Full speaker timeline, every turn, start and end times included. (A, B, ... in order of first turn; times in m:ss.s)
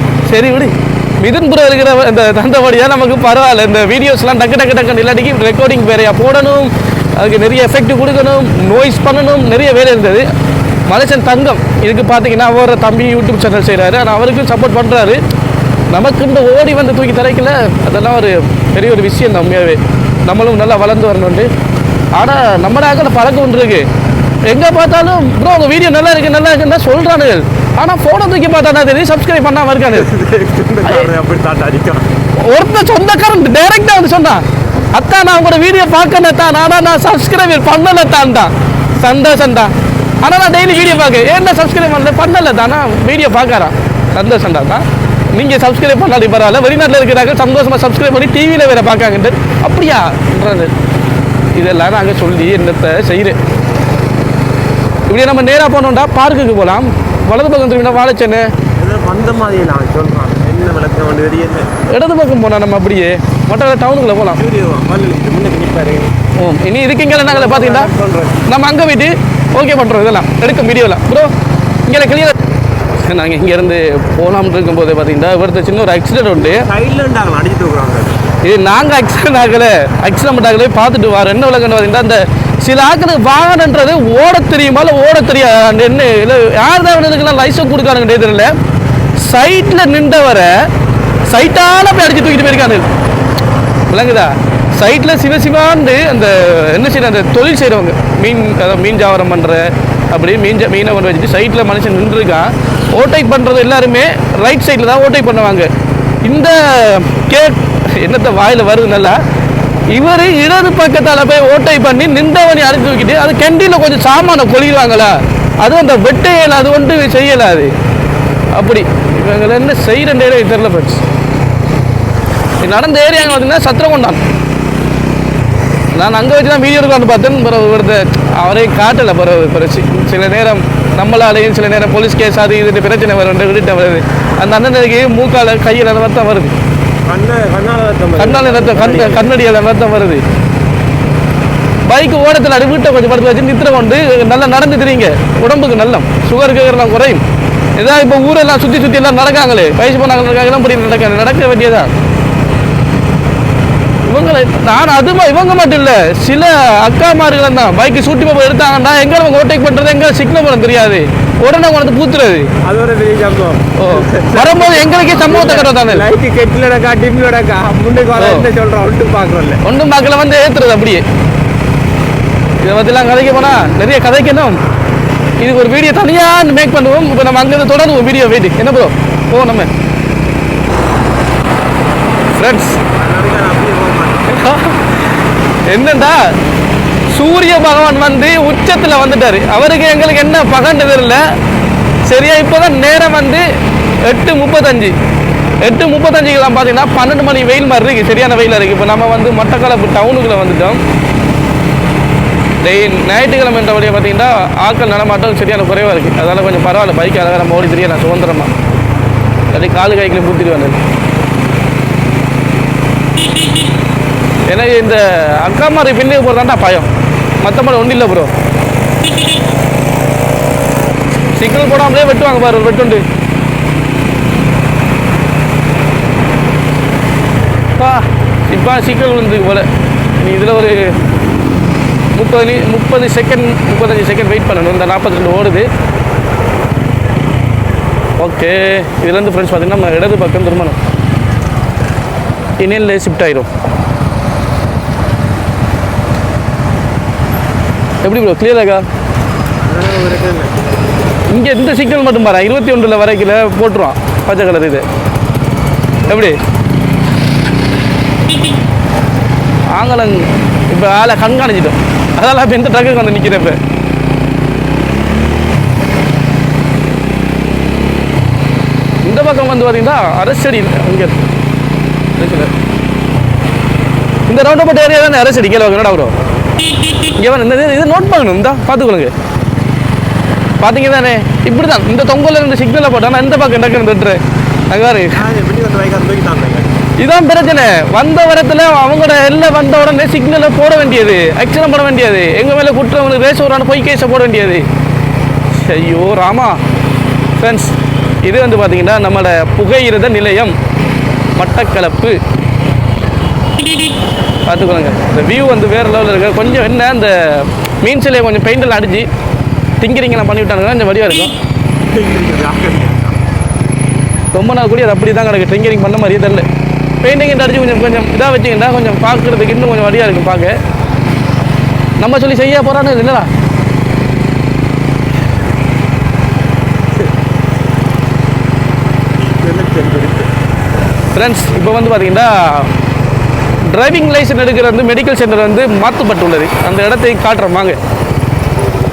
0:00.3-0:10.3 A
0:10.9-0:15.2 A
0:15.9-0:21.5 A
0:22.2-0:23.9 A
0:24.5-0:30.1 A
0:29.9-0:32.1 B
0:32.4-0:50.7 A
0:51.6-0:53.4 A
0:55.1-0:58.5 A
0:58.8-1:01.7 B
1:01.9-1:04.4 A
1:04.4-1:06.1 B
1:06.4-1:07.9 A
1:07.2-1:08.5 B
1:08.5-1:11.3 A
1:11.9-1:12.4 A
1:13.0-1:16.7 A
1:16.4-1:18.3 B
1:18.4-1:28.6 A
1:29.2-1:30.7 A
1:31.3-1:32.8 A
1:33.9-1:45.7 A
1:46.2-1:49.2 A
1:49.9-1:57.7 A
1:58.5-2:01.0 A
2:02.6-2:04.2 A
2:06.0-2:16.5 A
2:17.1-2:19.4 B
2:18.2-2:20.2 A
2:21.9-2:27.2 A
2:27.8-2:31.9 A
2:34.1-2:42.5 A
2:42.6-2:49.6 B
2:43.8-2:46.1 A
2:48.2-2:48.5 A
2:49.6-2:51.0 A
2:52.6-2:54.6 A
2:55.4-2:59.7 A
3:02.4-3:02.8 A
3:03.0-3:04.4 B
3:04.3-3:05.0 A
3:05.7-3:06.4 A
3:07.1-3:11.4 A
3:12.1-3:13.4 A
3:14.0-3:14.9 A
3:15.6-3:20.8 A
3:22.6-3:28.5 A
3:29.5-3:30.8 A
3:34.5-3:36.9 A
3:37.4-3:38.3 A
3:41.4-3:43.0 A
3:47.8-3:51.0 A
3:52.2-3:55.7 A
3:58.2-4:00.8 A
4:02.6-4:03.5 A
4:08.0-4:08.8 A
4:09.6-4:10.6 B
4:11.3-4:14.8 A
4:16.1-4:16.4 A
4:19.7-4:23.6 A
4:29.0-4:31.2 A
4:32.2-4:32.5 A
4:34.3-4:36.1 A
4:37.1-4:39.1 A
4:40.6-4:45.2 A
4:45.1-4:46.9 B
4:47.0-4:54.7 A
4:55.5-4:56.6 A
4:57.4-5:00.6 A
5:01.4-5:02.2 A
5:04.5-5:09.1 A
5:09.8-5:11.3 A
5:11.9-5:13.2 B
5:14.3-5:16.5 A
5:17.0-5:20.6 A
5:22.0-5:23.3 A
5:29.2-5:30.3 B
5:31.2-5:32.7 A
5:33.7-5:37.8 A